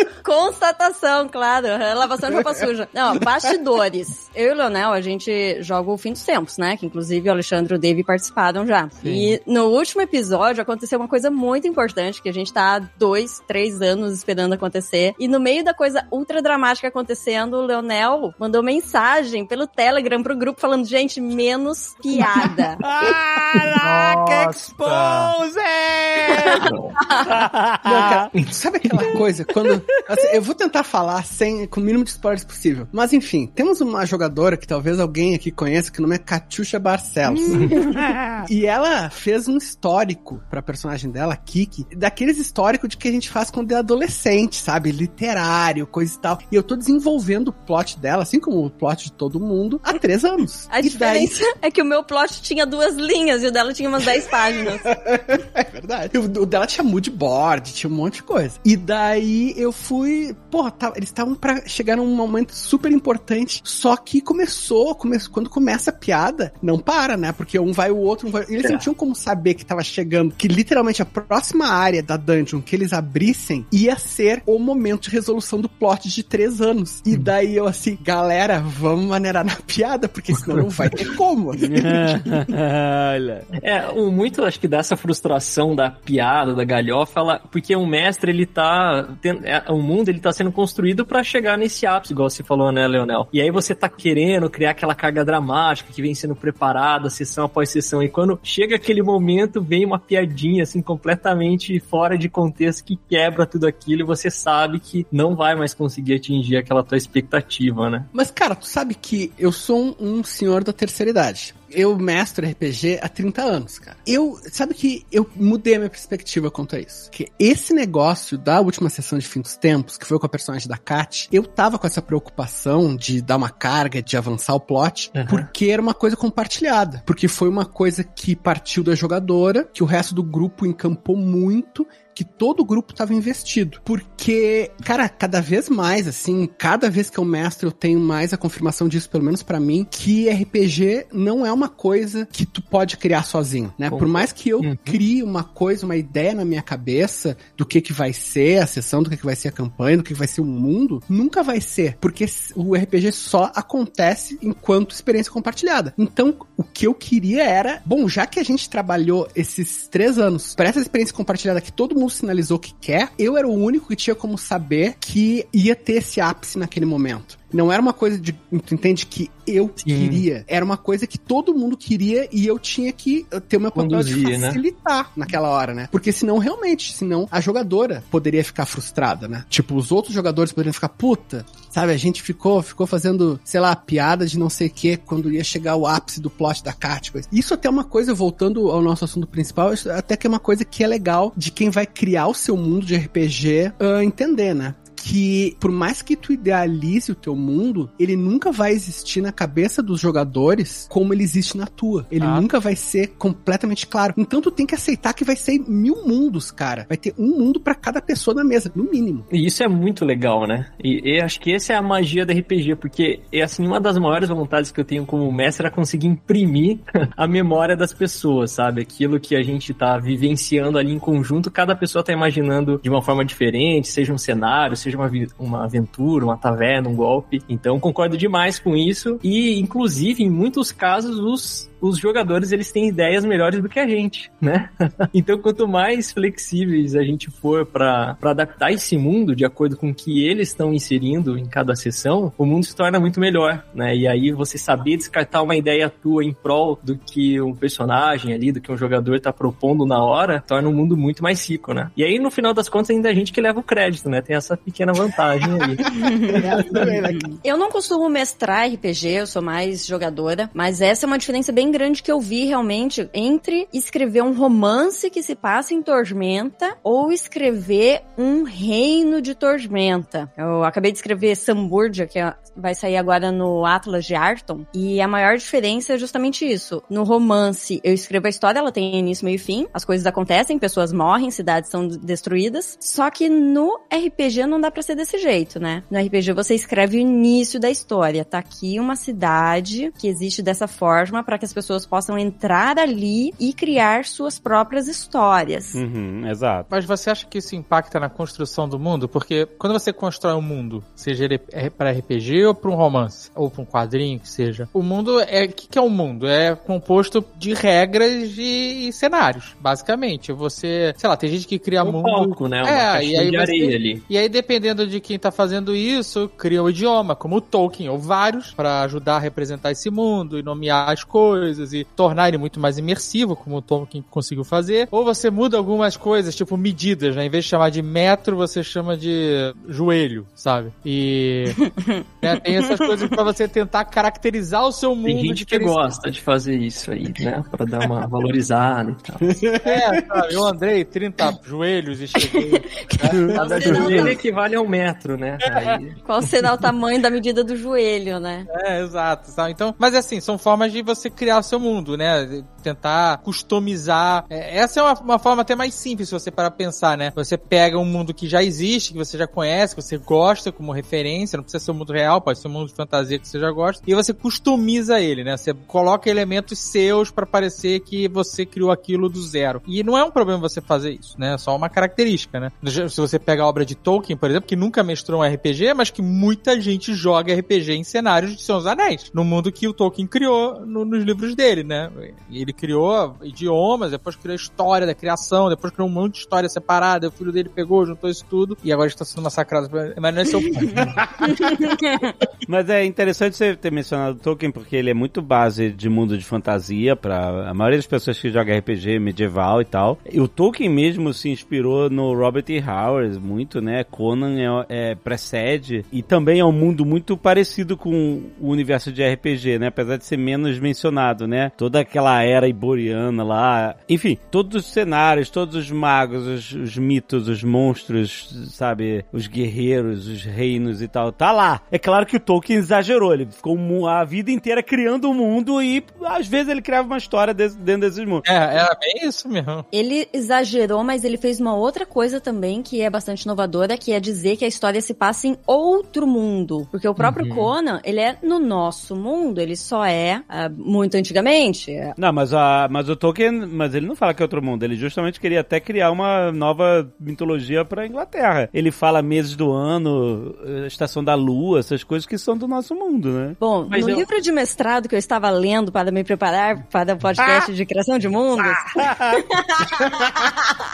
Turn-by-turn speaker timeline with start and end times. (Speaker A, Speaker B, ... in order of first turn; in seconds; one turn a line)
Speaker A: 0.2-22.8
Speaker B: 9.0-9.3
Speaker C: 22.8-26.6
Speaker B: 23.8-25.3
Speaker A: 26.5-27.3
Speaker D: 26.6-26.9
Speaker C: 27.2-28.3
Speaker E: 27.9-37.9
Speaker D: 28.3-29.2
Speaker C: 37.3-38.5
Speaker E: 38.5-51.3
Speaker A: 50.7-54.9
Speaker E: 54.7-82.2
Speaker C: 81.7-83.4
Speaker D: 83.6-108.1
Speaker E: 108.1-209.3
Speaker D: 125.1-125.5
Speaker D: 143.9-145.0
Speaker D: 169.8-170.2
Speaker D: 173.7-174.6
Speaker B: 202.2-202.4
Speaker D: 209.3-256.9
Speaker A: 255.9-256.4
Speaker E: 256.3-257.4
Speaker A: 257.4-295.8
Speaker C: 295.7-296.7
Speaker B: 296.7-331.6
Speaker D: 311.8-314.0
Speaker A: 331.6-332.0
Speaker B: 332.2-335.8
Speaker D: 335.1-339.3
Speaker E: 339.2-340.4
Speaker B: 339.6-344.1
Speaker E: 343.0-343.4
Speaker D: 343.3-346.4
Speaker A: 343.4-344.2
Speaker A: 346.0-348.5
Speaker B: 348.5-390.9
Speaker A: 391.2-392.1
Speaker C: 392.5-428.2
Speaker B: 428.2-429.6
Speaker A: 429.7-441.9
Speaker D: 437.1-437.5
Speaker C: 442.0-453.4
Speaker A: 453.4-460.2
Speaker D: 453.7-454.1
Speaker C: 457.2-457.4
Speaker C: 458.4-459.2